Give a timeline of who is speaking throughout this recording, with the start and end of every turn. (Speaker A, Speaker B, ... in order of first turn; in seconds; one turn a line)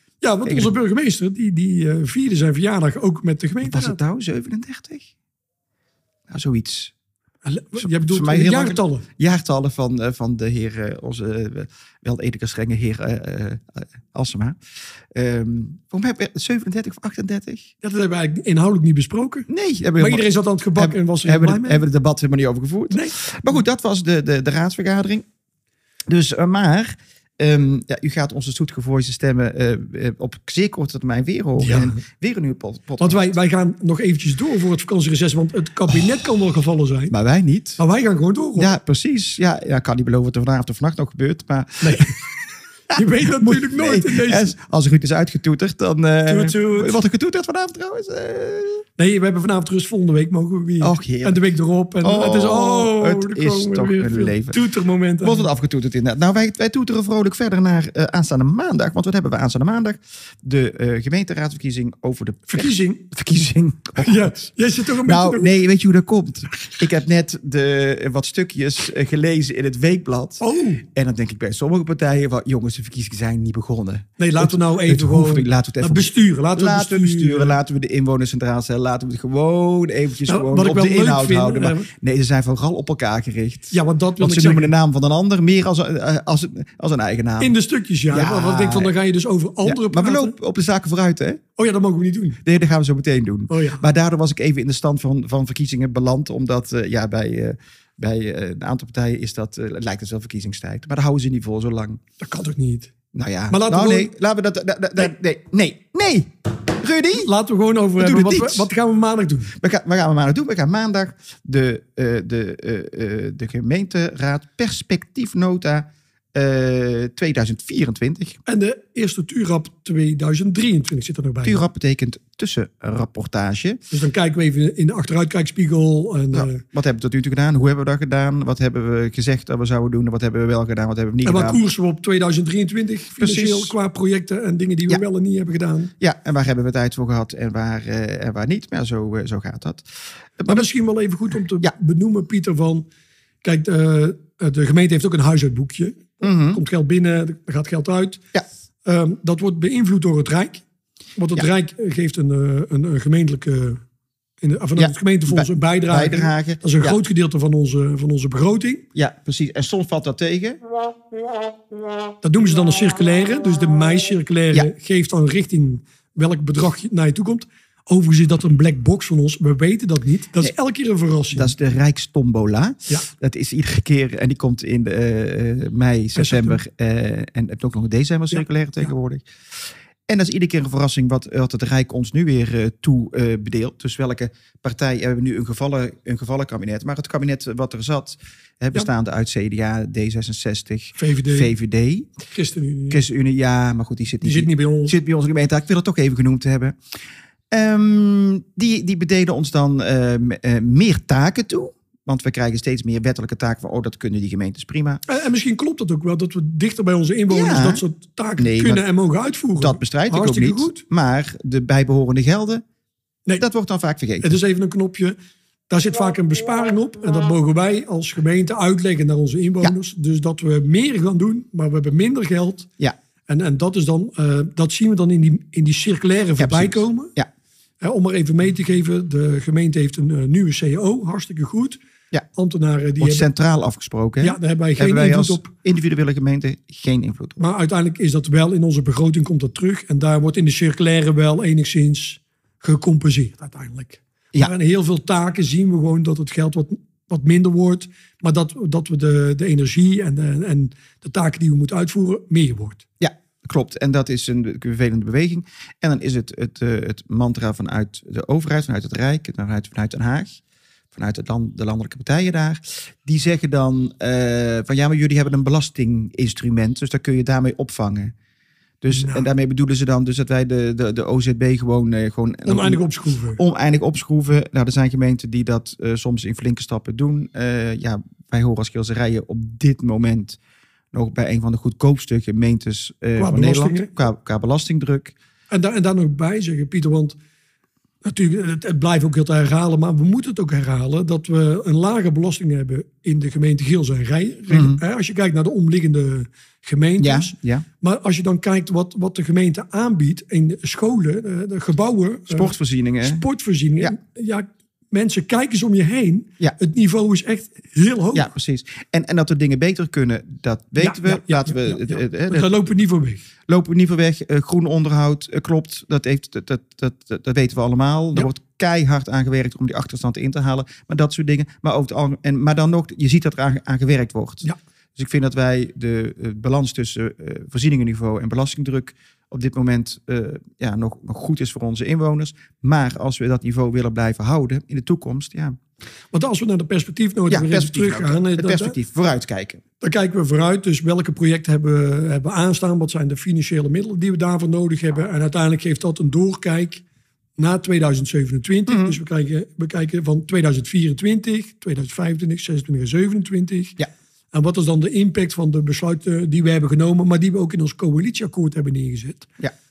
Speaker A: 0.2-4.0
Speaker B: 0.5-0.7
Speaker B: 3.6-5.1
Speaker B: 6.3-6.9
Speaker A: 7.4-9.1
Speaker B: 7.8-14.6
Speaker B: 15.1-17.7
Speaker A: 17.8-19.5
Speaker B: 19.5-25.2
Speaker A: 20.0-21.8
Speaker A: 22.9-23.2
Speaker B: 26.1-33.3
Speaker A: 31.6-32.0
Speaker A: 33.0-37.1
Speaker B: 37.1-37.8
Speaker A: 37.8-38.7
Speaker B: 38.6-42.4
Speaker A: 41.8-42.2
Speaker B: 42.9-48.9
Speaker A: 42.9-44.5
Speaker A: 46.3-47.0
Speaker A: 49.0-55.5
Speaker B: 50.8-51.4
Speaker B: 52.0-54.6
Speaker B: 55.2-64.4
Speaker A: 62.5-63.0
Speaker A: 64.0-65.5
Speaker B: 65.0-87.5
Speaker A: 70.4-70.8
Speaker A: 74.2-77.6
Speaker A: 80.3-81.9
Speaker A: 83.7-84.7
Speaker A: 87.4-90.3
Speaker B: 88.1-88.9
Speaker B: 89.6-91.4
Speaker A: 91.6-92.4
Speaker B: 92.4-102.0
Speaker A: 93.5-93.8
Speaker A: 102.2-102.9
Speaker B: 103.1-107.3
Speaker A: 103.5-104.1
Speaker A: 107.1-109.5
Speaker B: 108.0-108.7
Speaker B: 109.6-118.4
Speaker A: 118.5-121.6
Speaker B: 121.4-123.8
Speaker A: 123.9-126.6
Speaker B: 126.3-131.6
Speaker A: 131.2-135.9
Speaker B: 133.2-133.8
Speaker B: 136.0-139.8
Speaker B: 140.4-140.7
Speaker A: 140.5-142.9
Speaker A: 143.4-148.2
Speaker B: 146.2-146.6
Speaker A: 148.8-150.6
Speaker A: 151.2-153.8
Speaker A: 154.4-158.9
Speaker B: 154.8-157.0
Speaker B: 158.9-160.6
Speaker A: 162.2-171.5
Speaker B: 171.3-192.1
Speaker A: 176.2-176.6
Speaker A: 190.9-191.5
Speaker A: 192.3-193.0
Speaker B: 192.9-196.8
Speaker A: 194.2-194.9
Speaker B: 197.5-205.0
Speaker A: 205.1-210.8
Speaker B: 207.3-207.8
Speaker B: 208.4-208.8
Speaker B: 209.6-212.6
Speaker B: 213.4-214.3
Speaker A: 214.2-215.2
Speaker A: 215.7-222.7
Speaker A: 223.3-227.1
Speaker B: 226.4-227.3
Speaker A: 227.8-231.8
Speaker A: 232.4-233.3
Speaker B: 233.0-237.4
Speaker A: 234.2-235.5
Speaker A: 237.4-252.8
Speaker B: 253.0-260.4
Speaker B: 260.9-268.1
Speaker B: 268.8-272.8
Speaker A: 268.9-269.3
Speaker A: 272.5-273.4
Speaker B: 273.4-280.4
Speaker B: 280.9-285.1
Speaker A: 283.2-283.9
Speaker A: 285.5-287.2
Speaker A: 288.0-308.3
Speaker B: 294.5-294.8
Speaker B: 297.0-297.6
Speaker B: 302.3-303.2
Speaker B: 308.1-312.5
Speaker A: 310.8-313.2
Speaker B: 313.5-335.6
Speaker A: 336.1-338.8
Speaker B: 337.3-339.6
Speaker A: 339.8-346.8
Speaker A: 347.4-353.8
Speaker B: 348.7-349.0
Speaker A: 354.3-359.3